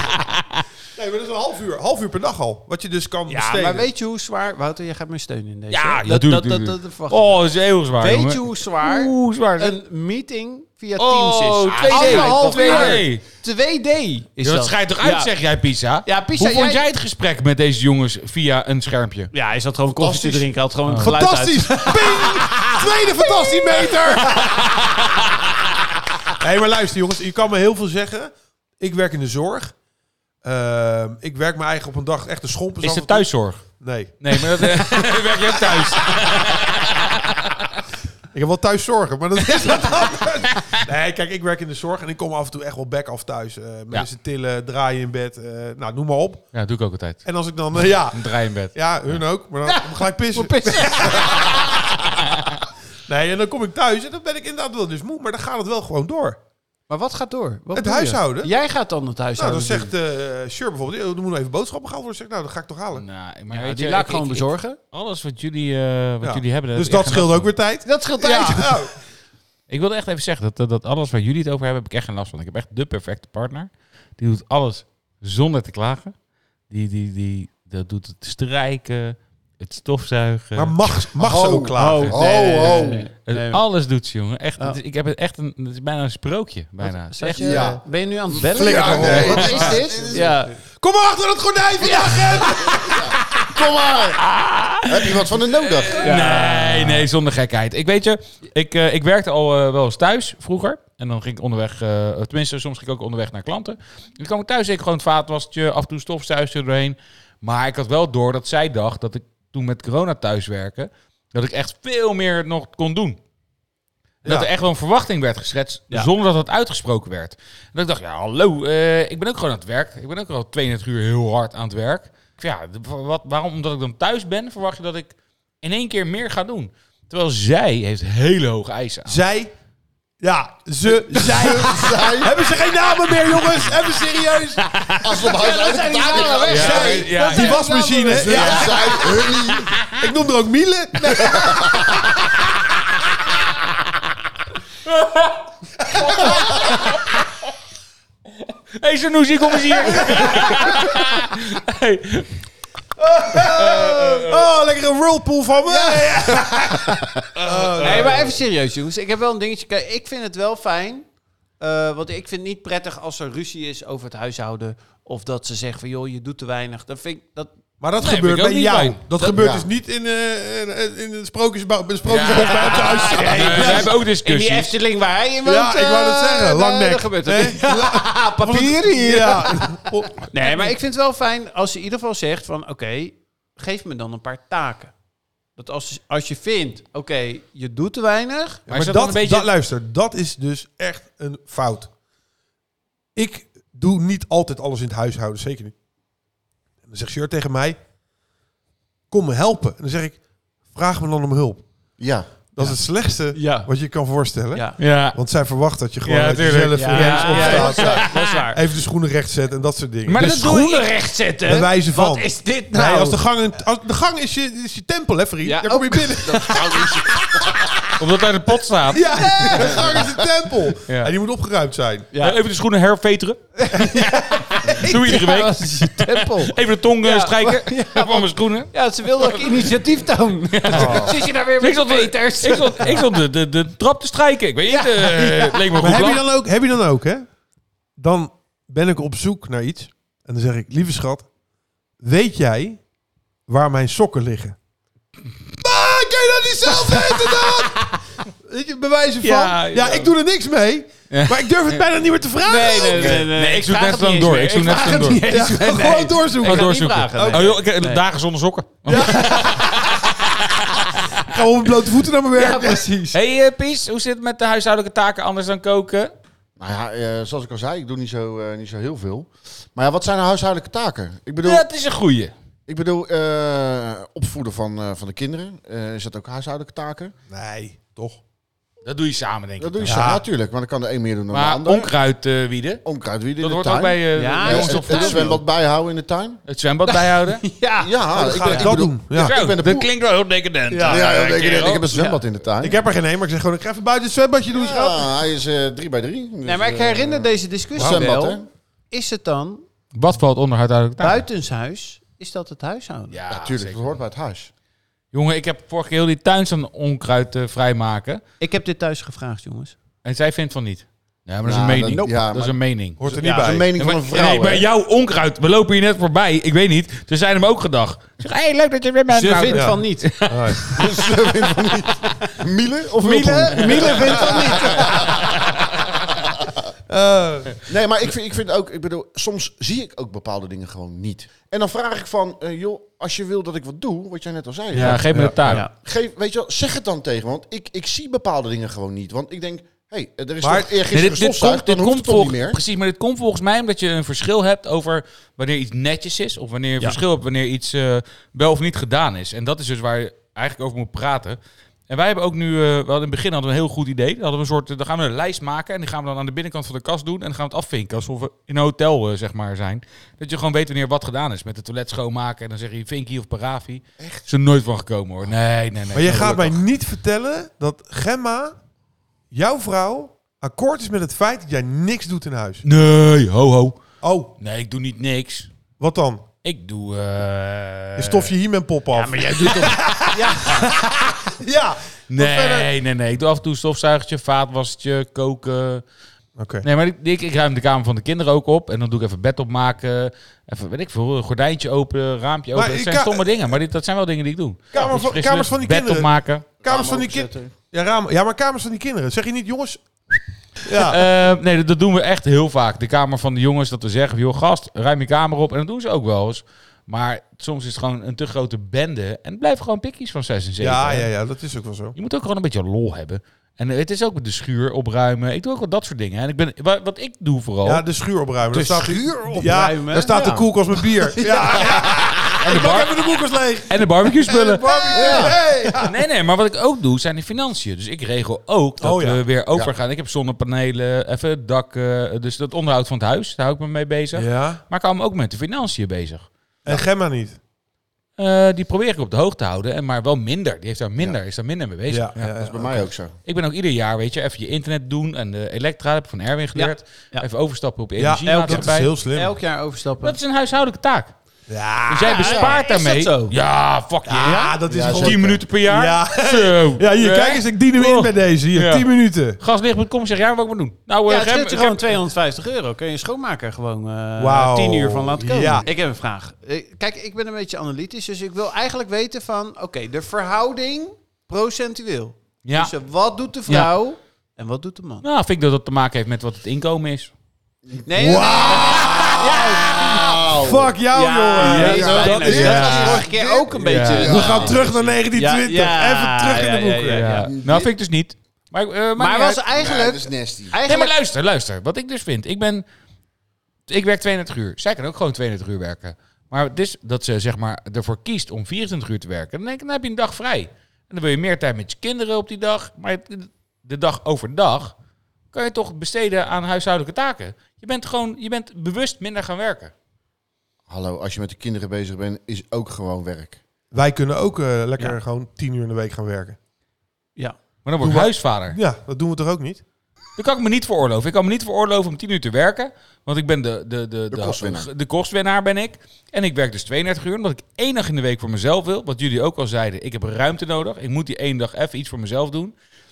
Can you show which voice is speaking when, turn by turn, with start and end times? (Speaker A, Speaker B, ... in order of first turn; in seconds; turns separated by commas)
Speaker A: 0.9-3.9, Speaker B: 3.3-7.4, Speaker C: 5.7-9.8, Speaker B: 8.0-15.3, Speaker C: 11.0-13.2, Speaker D: 11.7-13.0, Speaker C: 14.4-19.3, Speaker B: 16.0-16.9, Speaker B: 19.3-24.6, Speaker D: 20.0-20.5, Speaker C: 20.9-21.2, Speaker A: 21.0-24.6, Speaker A: 26.4-29.7, Speaker A: 30.4-36.6, Speaker C: 32.8-37.5, Speaker A: 38.3-46.5, Speaker C: 46.5-47.2, Speaker A: 47.2-51.7, Speaker C: 47.8-49.2, Speaker B: 49.6-51.7, Speaker A: 53.1-56.4, Speaker B: 56.9-59.9, Speaker A: 57.7-58.5, Speaker A: 59.4-63.0, Speaker C: 62.9-67.5, Speaker B: 63.5-64.8, Speaker A: 66.2-69.0, Speaker B: 67.8-68.9, Speaker C: 69.7-76.1, Speaker C: 76.7-81.0, Speaker A: 80.5-82.8, Speaker D: 81.2-83.1, Speaker B: 81.7-83.6, Speaker C: 83.2-87.7, Speaker B: 86.8-90.6, Speaker D: 87.4-87.8, Speaker A: 87.4-87.8, Speaker D: 88.4-90.3, Speaker A: 88.4-90.2, Speaker C: 88.9-89.8, Speaker A: 90.8-93.2, Speaker D: 92.7-94.2, Speaker C: 94.2-113.2, Speaker D: 94.9-96.2, Speaker B: 96.0-97.1, Speaker C: 114.2-129.2, Speaker A: 129.1-129.5, Speaker A: 130.2-134.7, Speaker D: 131.1-132.4, Speaker B: 134.8-139.3, Speaker D: 135.0-137.1, Speaker A: 136.5-139.2, Speaker C: 136.5-137.7, Speaker D: 138.1-139.7, Speaker A: 140.0-141.9, Speaker D: 141.3-142.0, Speaker C: 144.8-145.5, Speaker A: 146.0-146.6, Speaker C: 146.0-147.2, Speaker C: 148.8-152.4, Speaker A: 149.8-150.8, Speaker A: 153.0-158.4, Speaker C: 153.4-154.5, Speaker B: 155.6-157.2, Speaker C: 157.4-158.2, Speaker B: 157.8-161.1, Speaker B: 161.6-167.5, Speaker A: 167.8-173.9, Speaker C: 168.0-169.0, Speaker D: 169.3-169.7, Speaker C: 172.1-174.7, Speaker B: 172.3-184.9, Speaker A: 175.4-180.2, Speaker B: 185.6-188.6, Speaker C: 188.7-189.5, Speaker A: 188.7-191.9, Speaker A: 193.1-195.7, Speaker A: 196.9-197.8, Speaker A: 199.1-201.6, Speaker D: 202.0-202.3, Speaker A: 202.6-210.4, Speaker B: 203.3-203.7, Speaker B: 204.5-204.8, Speaker C: 204.8-205.2, Speaker C: 206.0-208.3, Speaker B: 206.7-208.6, Speaker C: 210.1-210.9, Speaker B: 210.1-213.2, Speaker A: 211.4-217.0, Speaker B: 215.4-217.6, Speaker D: 216.3-217.6, Speaker C: 218.0-219.6, Speaker A: 218.9-222.1, Speaker B: 219.4-219.8, Speaker D: 219.6-220.2, Speaker C: 220.9-221.1, Speaker B: 222.1-222.4, Speaker C: 222.2-229.8, Speaker B: 223.6-233.1, Speaker C: 230.5-236.2, Speaker A: 230.7-231.1, Speaker B: 234.7-235.7, Speaker A: 235.7-237.3, Speaker A: 238.0-241.3, Speaker A: 242.0-242.8, Speaker A: 243.5-244.6, Speaker A: 245.6-247.9, Speaker B: 246.9-247.8, Speaker A: 248.4-253.3, Speaker C: 249.2-250.1, Speaker C: 251.1-251.8, Speaker B: 252.4-258.0, Speaker C: 252.9-255.3, Speaker A: 255.3-257.5, Speaker C: 256.4-260.1, Speaker A: 258.9-259.9, Speaker A: 261.2-262.9, Speaker B: 262.3-263.2, Speaker C: 263.1-266.1, Speaker D: 266.6-271.6, Speaker C: 271.4-272.3, Speaker D: 272.7-277.1, Speaker A: 277.3-278.2, Speaker C: 278.9-280.1, Speaker D: 279.6-281.9, Speaker A: 279.9-280.2, Speaker C: 281.3-282.8, Speaker D: 282.9-286.4, Speaker C: 283.4-285.4, Speaker B: 284.1-285.4, Speaker C: 286.5-287.4, Speaker B: 286.9-288.7, Speaker D: 287.8-289.9, Speaker A: 288.1-289.3, Speaker C: 289.1-292.1, Speaker A: 290.7-291.1, Speaker D: 290.9-292.8, Speaker A: 292.6-295.1, Speaker D: 294.5-298.4, Speaker B: 296.4-299.6, Speaker A: 297.8-298.1, Speaker C: 299.9-301.2, Speaker B: 301.0-303.2, Speaker C: 303.1-303.9, Speaker D: 303.3-304.5, Speaker C: 305.1-308.2, Speaker B: 308.4-309.7, Speaker C: 310.0-313.0, Speaker D: 311.4-312.6, Speaker A: 313.0-313.7, Speaker B: 313.2-313.6, Speaker D: 313.2-314.6, Speaker C: 313.8-320.9, Speaker B: 319.1-320.1, Speaker A: 319.5-320.7, Speaker D: 320.7-325.3, Speaker B: 323.0-325.1, Speaker D: 326.2-326.6, Speaker A: 326.9-327.7, Speaker D: 327.6-335.1, Speaker C: 334.7-335.6, Speaker A: 334.8-335.6, Speaker B: 335.5-335.7, Speaker D: 335.8-342.6, Speaker A: 340.4-340.7, Speaker C: 340.9-351.4, Speaker C: 351.9-366.6, Speaker A: 365.9-368.6, Speaker A: 369.3-372.6, Speaker C: 372.6-373.8, Speaker A: 374.0-374.3, Speaker C: 374.4-375.5, Speaker A: 375.8-376.2, Speaker C: 376.4-378.3, Speaker A: 378.0-380.7, Speaker B: 378.9-380.8, Speaker A: 381.3-382.7, Speaker C: 382.1-385.8, Speaker A: 386.4-386.6, Speaker C: 386.6-396.5, Speaker A: 392.5-393.4, Speaker A: 394.7-396.1, Speaker D: 396.6-397.5, Speaker A: 396.6-399.9, Speaker A: 400.6-401.0, Speaker C: 400.8-411.1, Speaker A: 410.6-411.9, Speaker C: 411.9-417.8, Speaker A: 417.6-425.9, Speaker B: 418.5-420.1, Speaker D: 420.1-420.5, Speaker B: 420.9-422.0, Speaker C: 422.3-423.1, Speaker C: 423.7-424.7, Speaker B: 424.8-425.8, Speaker D: 424.9-425.4, Speaker C: 425.8-436.8, Speaker A: 428.8-429.2, Speaker A: 434.1-434.6, Speaker A: 436.6-437.4, Speaker C: 438.2-442.3, Speaker A: 441.9-442.9, Speaker D: 442.4-443.1, Speaker C: 443.2-448.9, Speaker B: 446.6-447.2, Speaker A: 448.0-449.4, Speaker B: 448.2-450.2, Speaker C: 450.0-451.1, Speaker A: 451.5-452.1, Speaker C: 451.9-458.9, Speaker B: 451.9-453.3, Speaker D: 452.2-452.6, Speaker A: 454.1-459.4, Speaker B: 454.2-454.6, Speaker D: 454.7-455.4, Speaker C: 459.4-461.9, Speaker B: 461.1-475.1, Speaker A: 464.2-465.7, Speaker C: 472.4-472.7, Speaker C: 475.0-477.1, Speaker B: 477.8-480.0, Speaker A: 477.9-487.1, Speaker D: 479.8-480.8, Speaker B: 480.9-487.3, Speaker D: 481.4-483.1, Speaker C: 481.5-481.9, Speaker C: 483.6-484.5, Speaker D: 483.9-484.8, Speaker C: 486.9-489.4, Speaker D: 487.3-487.7, Speaker B: 489.0-490.9, Speaker D: 489.5-490.6, Speaker C: 490.6-492.6, Speaker C: 493.7-504.7, Speaker C: 505.3-509.7, Speaker D: 510.7-513.4, Speaker A: 513.7-516.4, Speaker C: 517.6-518.6, Speaker A: 517.8-519.6, Speaker C: 520.2-532.5, Speaker D: 524.1-524.7